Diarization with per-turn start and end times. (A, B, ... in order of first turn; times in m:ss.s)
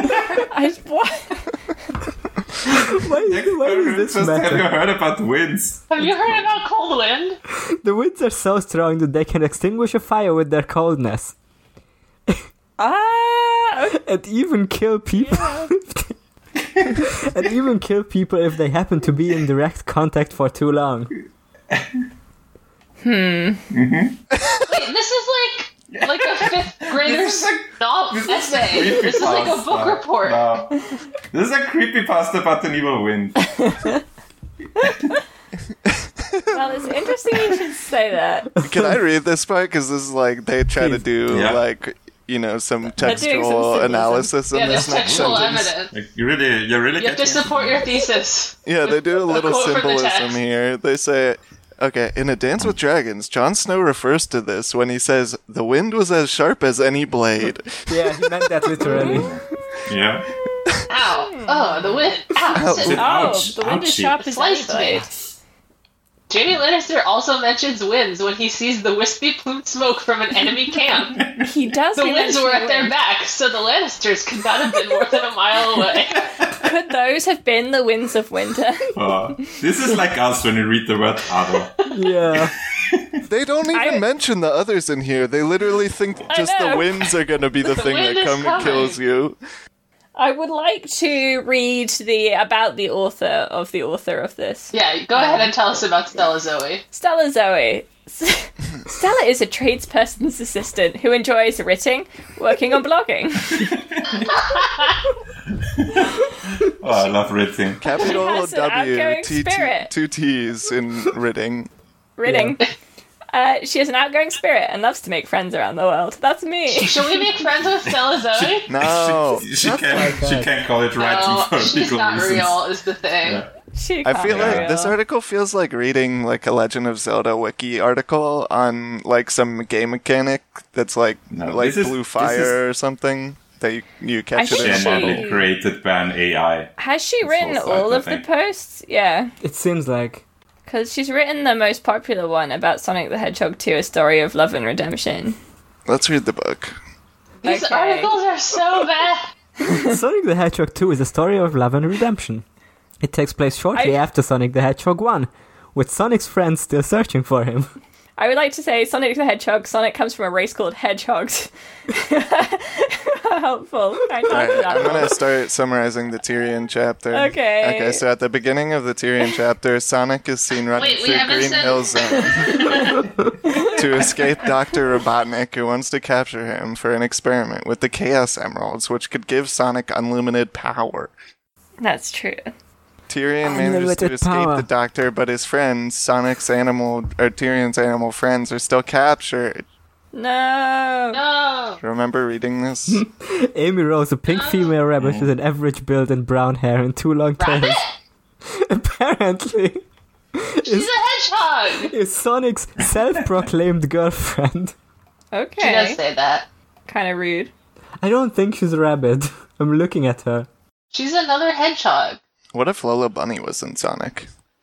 0:00.4-0:01.6 A
0:02.8-0:04.7 B
0:02.9-0:06.5 C
0:05.9-0:07.4 D
0:07.7-0:11.3 B
0:12.8-0:14.0 A
0:13.9-0:16.1 B
0:15.1-0:15.7 A
0:16.9-0:21.1 B
0:21.7-0:22.0 C
0:23.0-0:23.7 A
0:23.7-0:24.2 C
0:24.4-0:24.7 E
0:24.6-0:30.5 D
0:25.9-0:33.6 C
0:33.6-0:34.0 A
0:36.2-0:36.6 E
0:36.5-0:38.5 A
0:38.5-0:39.0 B
0:38.6-0:45.7 E
0:40.7-0:41.4 B
0:41.3-0:41.6 C
0:43.0-0:44.4 A
0:44.5-0:45.9 D
0:45.1-0:48.0 C
0:47.0-0:50.4 D
0:48.6-0:59.0 E
0:57.9-0:59.3 B
0:58.8-1:00.3 C
1:00.9-1:03.1 D
1:01.0-1:02.0 A
1:02.5-1:03.1 E
1:02.5-1:05.1 A
1:02.8-1:04.2 C
1:04.2-1:05.1 D
1:06.3-1:11.2 D
1:11.2-1:11.4 C
1:11.4-1:12.9 A
1:11.9-1:16.3 D
1:16.6-1:18.9 A
1:18.9-1:21.8 C
1:21.9-1:22.5 B
1:22.3-1:23.1 C
1:23.2-1:29.4 E
1:23.7-1:24.0 A
1:26.3-1:27.1 A
1:27.6-1:29.0 D
1:30.2-1:35.5 A
1:34.7-1:36.8 D
1:36.9-1:43.7 A
1:43.5-1:44.3 C
1:44.3-1:44.9 D
1:45.8-1:48.0 C
1:47.8-1:51.7 E
1:48.0-1:49.9 A
1:52.2-1:52.6 A
1:52.2-1:52.6 B
1:53.3-1:57.3 A
1:56.7-1:58.7 D
1:57.8-2:02.6 C
1:58.7-1:59.5 E
1:59.5-2:00.5 B
2:01.0-2:03.4 D
2:03.7-2:05.0 A
2:04.0-2:15.3 E
2:04.2-2:04.7 C
2:11.3-2:12.6 C
2:14.3-2:15.5 A
2:14.5-2:16.7 C
2:16.8-2:19.3 A
2:17.2-2:18.2 C
2:19.4-2:20.2 B
2:20.7-2:25.4 A
2:25.9-2:26.7 E
2:27.4-2:29.3 D
2:27.4-2:28.2 A
2:29.8-2:32.4 B
2:33.0-2:37.7 B
2:33.7-2:34.0 A
2:38.2-2:45.2 A
2:44.3-2:53.0 E
2:47.1-2:48.0 A
2:50.7-2:53.0 D
2:52.4-2:52.7 A
2:53.4-2:53.7 A
2:53.6-3:01.1 E
3:01.8-3:02.5 A
3:03.1-3:09.6 E
3:03.4-3:04.6 B
3:10.1-3:11.2 A
3:11.1-3:11.8 D
3:11.8-3:13.0 E
3:12.9-3:17.8 B
3:14.3-3:14.7 D
3:15.0-3:15.3 C
3:17.4-3:18.0 D
3:18.4-3:19.8 B
3:20.3-3:20.9 B
3:20.6-3:21.9 D
3:21.7-3:24.7 B
3:25.3-3:26.0 A
3:25.6-3:26.4 D
3:26.9-3:27.5 A
3:28.0-3:30.5 B
3:30.9-3:32.2 D
3:32.5-3:34.3 E